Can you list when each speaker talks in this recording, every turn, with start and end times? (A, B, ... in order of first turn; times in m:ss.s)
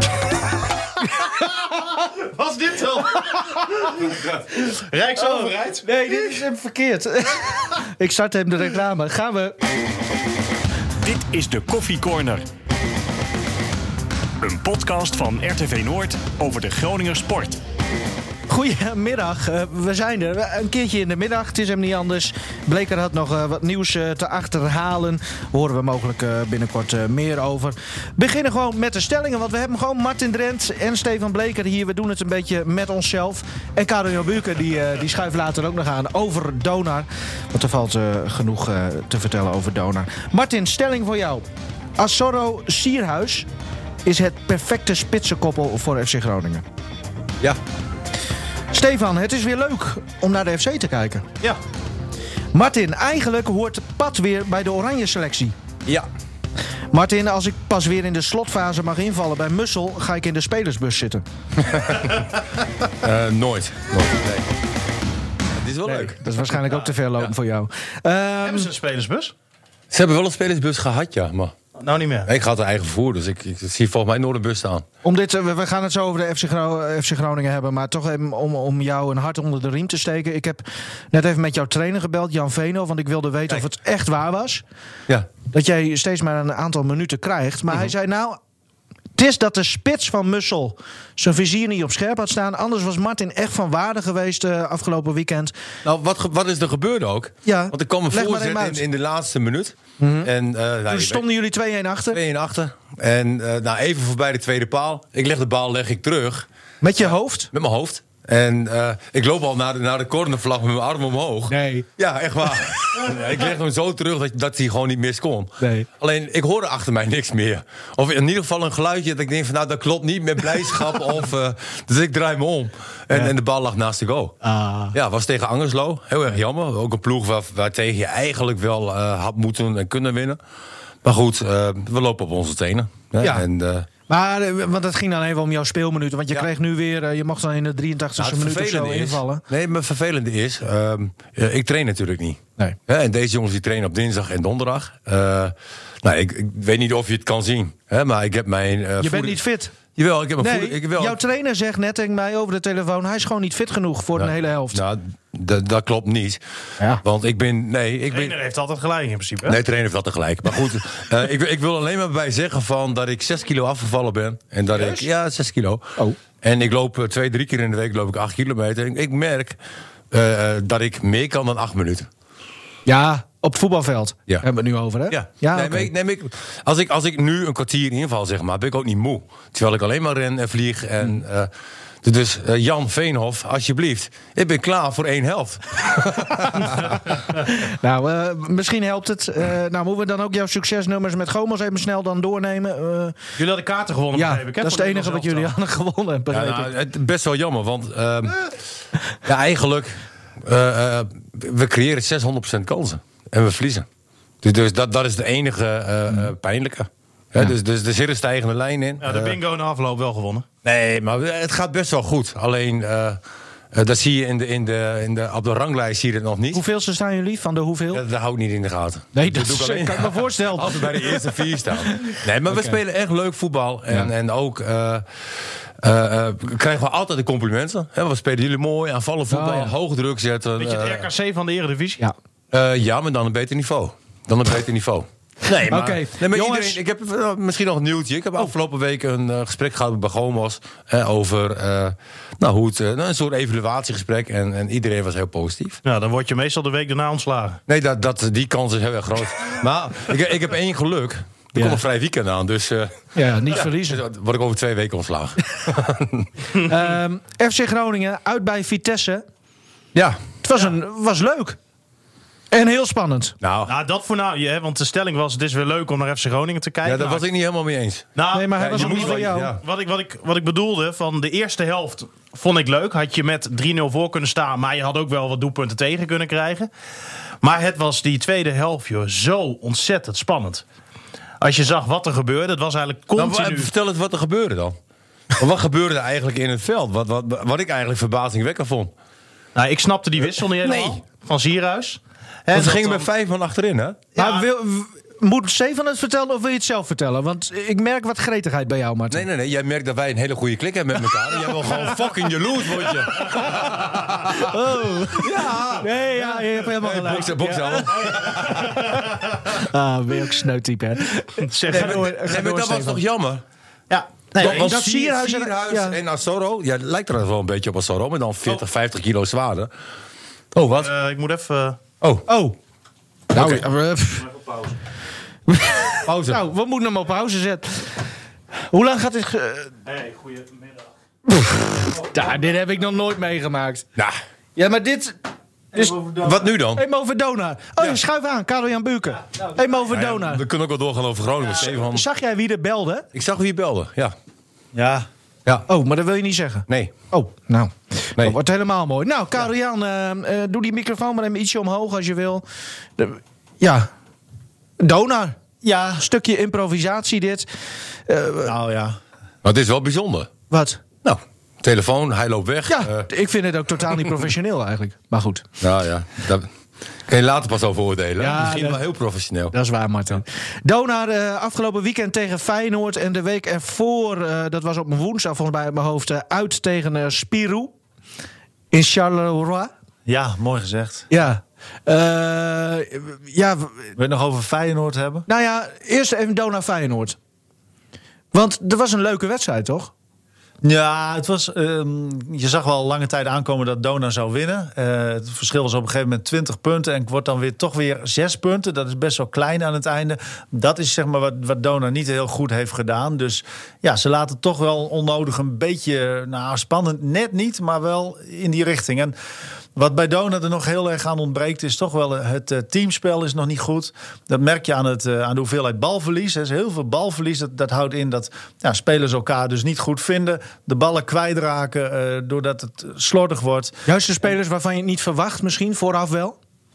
0:02.1-0:05.8 A
0:05.2-0:09.6 B
0:11.0-0:12.4 C
0:14.4-0:17.6 C
0:18.5-0:41.4 B
0:42.0-0:43.5 B
0:44.0-0:46.6 B
0:48.7-0:51.2 B
0:52.5-0:55.5 B
0:56.9-1:01.2 B
1:01.6-1:02.2 D
1:03.0-1:04.5 D
1:05.6-1:06.2 D
1:05.8-1:08.7 B
1:06.7-1:07.3 D
1:08.4-1:09.3 A
1:09.9-1:11.5 D
1:11.8-1:12.3 A
1:12.2-1:14.8 D
1:15.0-1:24.6 B
1:25.5-1:28.4 B
1:29.2-1:35.5 B
1:35.8-1:41.2 D
1:37.4-1:38.8 B
1:40.0-1:40.3 B
1:40.9-1:42.2 B
1:42.1-1:46.4 D
1:46.8-1:47.5 B
1:47.0-2:04.3 D
1:51.5-1:51.9 B
1:55.6-1:55.9 B
2:04.4-2:04.9 B
2:04.9-2:10.4 D
2:11.0-2:13.9 D
2:14.1-2:19.4 B
2:18.2-2:29.4 D
2:29.0-2:29.7 B
2:29.9-2:31.2 D
2:30.4-2:34.8 B
2:34.2-2:36.4 D
2:37.0-2:38.4 D
2:38.1-2:39.6 A
2:39.4-2:49.6 D
2:44.8-2:45.0 A
2:50.1-2:52.1 D
2:52.8-2:55.9 B
2:55.1-3:01.5 D
3:02.0-3:07.0 D
3:07.3-3:13.1 B
3:13.4-3:15.5 A
3:14.1-3:16.7 B
3:16.3-3:18.5 D
3:19.2-3:23.8 D
3:24.4-3:29.4 D
3:29.0-3:30.4 A
3:30.6-3:33.2 D
3:33.7-3:36.6 D
3:36.5-3:38.0 B
3:37.9-3:45.0 D
3:39.1-3:42.8 B
3:45.8-3:51.1 D
3:49.3-3:49.7 B
3:50.6-3:52.0 A
3:52.5-4:05.8 D
3:55.7-3:56.8 B
4:05.8-4:07.6 A
4:07.7-4:16.3 D
4:11.5-4:11.8 B
4:13.1-4:14.0 B
4:16.5-4:19.2 B
4:19.9-4:20.2 D
4:20.4-4:21.6 B
4:22.5-4:23.3 B
4:23.4-4:23.7 D
4:23.6-4:27.2 A
4:26.8-4:29.6 D
4:28.2-4:36.7 A
4:28.3-4:29.5 B
4:37.4-4:40.6 A
4:41.4-4:43.7 A
4:43.1-4:44.8 D
4:45.3-4:48.9 D
4:49.5-4:53.1 A
4:50.6-4:51.0 D
4:52.5-4:54.0 D
4:54.1-4:54.4 A
4:54.2-4:59.2 B
4:59.1-5:04.5 D
5:03.2-5:13.0 B
5:05.1-5:09.0 D
5:11.4-5:12.1 A
5:11.7-5:13.4 D
5:14.4-5:16.0 B
5:14.4-5:14.6 A
5:14.4-5:19.7 D
5:20.5-5:20.9 D
5:20.7-5:21.8 A
5:22.0-5:22.2 D
5:22.3-5:22.6 B
5:23.3-5:23.6 D
5:23.3-5:24.2 B
5:24.2-5:24.8 A
5:25.5-5:28.0 B
5:26.0-5:26.4 D
5:28.7-5:29.7 B
5:29.8-5:30.9 A
5:31.3-5:33.8 B
5:34.6-5:35.2 B
5:35.7-5:36.5 E
5:36.2-5:36.8 D
5:36.7-5:40.4 B
5:39.8-5:42.0 D
5:41.6-5:43.0 B
5:43.1-5:44.1 D
5:44.7-5:45.1 E
5:45.7-5:52.4 B
5:46.7-5:46.9 D
5:53.0-5:53.9 B
5:54.8-5:55.4 B
5:55.6-5:56.0 E
5:56.0-5:57.5 B
5:58.1-5:58.5 B
5:58.4-5:59.0 E
5:59.4-6:00.3 D
6:00.5-6:00.8 B
6:01.0-6:03.1 D
6:02.7-6:05.4 B
6:05.6-6:06.5 D
6:07.1-6:09.5 D
6:08.2-6:08.8 B
6:09.5-6:17.7 B
6:18.7-6:19.7 B
6:20.0-6:21.1 E
6:21.1-6:23.9 B
6:24.0-6:25.2 E
6:25.3-6:27.2 B
6:28.3-6:29.9 B
6:30.6-6:49.1 E
6:49.8-7:03.8 E
7:03.8-7:06.4 B